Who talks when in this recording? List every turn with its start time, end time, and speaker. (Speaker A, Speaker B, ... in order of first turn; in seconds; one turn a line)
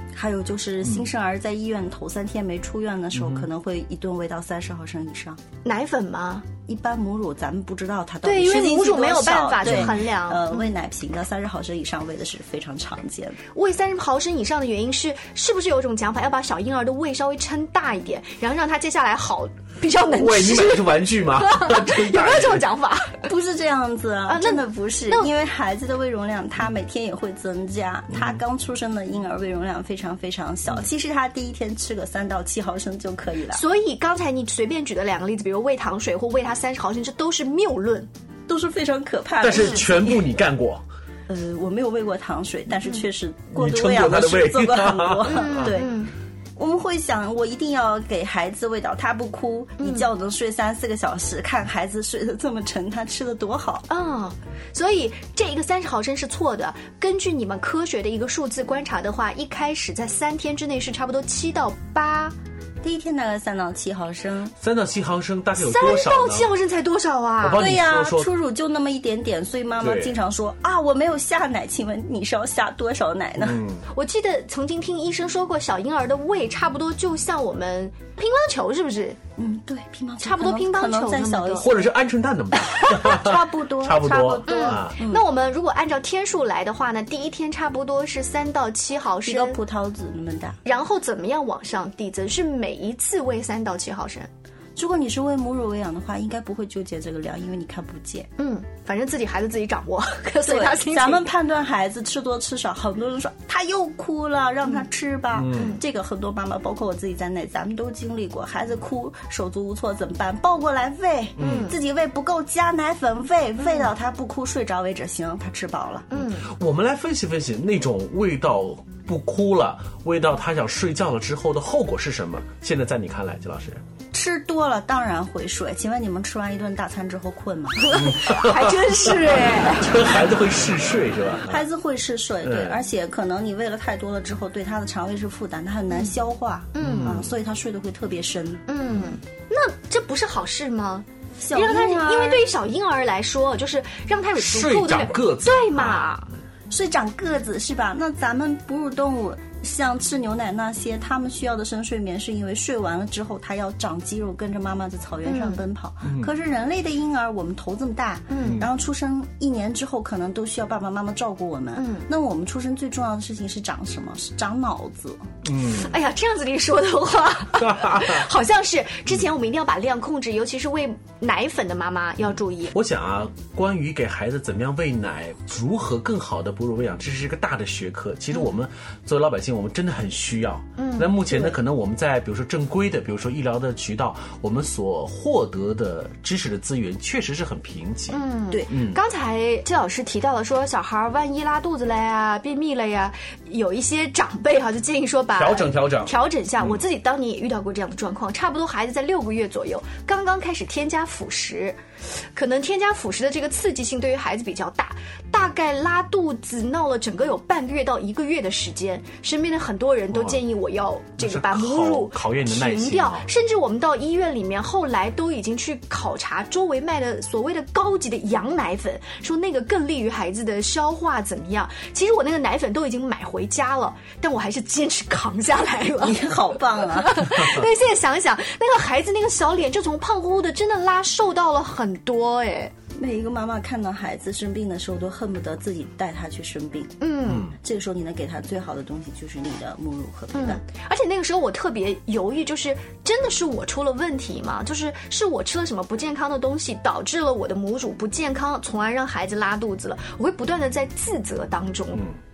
Speaker A: 0.1-5.4
Speaker B: 3.1-3.5
Speaker C: 5.6-6.5
Speaker A: 6.7-13.4
Speaker C: 8.2-10.7
Speaker B: 9.6-9.9
Speaker C: 13.5-23.3
Speaker B: 20.1-22.6
Speaker A: 23.2-33.6
Speaker C: 24.3-25.3
Speaker B: 28.1-28.4
Speaker C: 33.5-38.1
Speaker A: 38.5-40.3
Speaker B: 39.4-40.8
Speaker A: 41.3-46.0
Speaker B: 43.5-45.7
Speaker C: 45.3-46.1
Speaker A: 46.6-53.9
Speaker C: 49.8-50.1
Speaker C: 53.9-62.3
Speaker A: 62.8-64.5
Speaker B: 64.6-66.5
Speaker C: 65.5-67.7
Speaker B: 67.4-68.3
Speaker A: 67.5-73.6
Speaker B: 69.8-70.1
Speaker B: 73.4-73.8
Speaker C: 73.9-79.2
Speaker A: 79.4-81.9
Speaker C: 80.2-81.8
Speaker B: 81.6-84.9
Speaker A: 82.8-85.2
Speaker C: 84.5-89.6
Speaker A: 89.2-90.6
Speaker C: 90.6-94.3
Speaker A: 94.8-98.3
Speaker C: 98.4-101.3
Speaker A: 100.5-116.1
Speaker B: 105.3-105.8
Speaker C: 105.5-105.8
Speaker B: 111.4-111.7
Speaker C: 111.4-111.8
Speaker C: 116.1-116.5
Speaker B: 116.2-123.8
Speaker A: 124.1-128.4
Speaker C: 127.8-129.9
Speaker B: 127.9-131.6
Speaker A: 131.4-138.6
Speaker B: 132.4-132.8
Speaker C: 136.7-137.2
Speaker B: 136.8-137.3
Speaker C: 138.7-146.3
Speaker A: 141.4-142.4
Speaker B: 144.4-146.1
Speaker A: 146.7-165.2
Speaker C: 155.2-155.6
Speaker B: 156.0-156.3
Speaker C: 158.3-158.7
Speaker B: 158.4-158.7
Speaker C: 161.7-162.1
Speaker B: 165.4-165.9
Speaker C: 165.7-172.7
Speaker B: 167.6-168.3
Speaker B: 172.2-189.0
Speaker C: 180.8-181.3
Speaker C: 188.1-201.8
Speaker B: 195.3-196.8
Speaker C: 202.3-232.7
Speaker B: 210.1-210.4
Speaker B: 211.2-213.2
Speaker A: 225.9-227.4
Speaker A: 232.9-240.6
Speaker C: 237.0-237.5
Speaker B: 237.3-237.5
Speaker C: 240.3-252.0